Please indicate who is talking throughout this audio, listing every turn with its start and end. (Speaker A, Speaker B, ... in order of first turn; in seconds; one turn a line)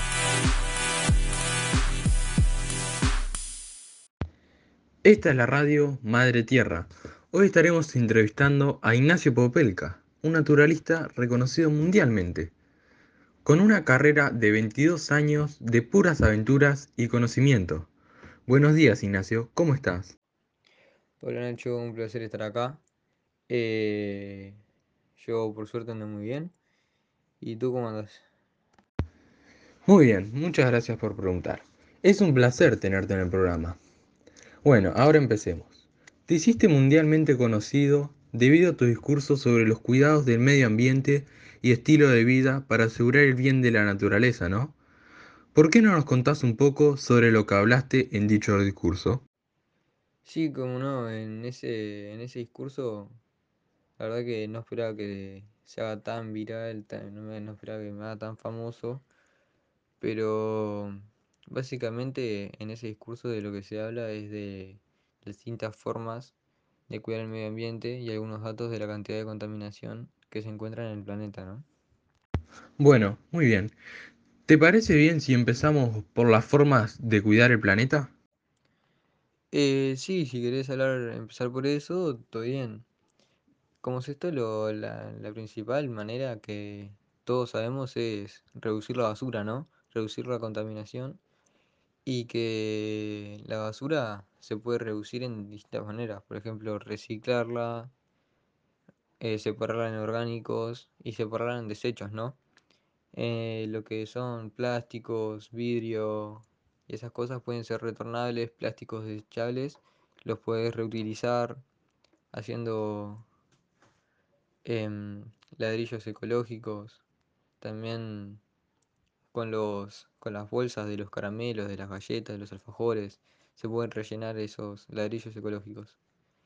Speaker A: 5.0-12.5
Speaker A: 13.4-17.9
Speaker A: 18.5-20.1
Speaker B: 21.2-22.8
Speaker B: 23.5-24.6
Speaker B: 25.2-26.5
Speaker B: 27.4-28.2
Speaker A: 29.9-33.8
Speaker A: 34.6-44.8
Speaker A: 45.5-49.2
Speaker B: 50.2-53.2
Speaker B: 54.0-59.0
Speaker B: 60.0-66.3
Speaker B: 66.9-71.7
Speaker A: 72.8-73.7
Speaker A: 74.5-78.1
Speaker B: 79.5-82.8
Speaker B: 83.8-91.2
Speaker B: 92.0-97.9
Speaker B: 99.2-102.4
Speaker B: 103.1-111.6
Speaker B: 112.3-113.3
Speaker B: 114.6-117.0
Speaker B: 117.6-118.4
Speaker B: 119.3-126.0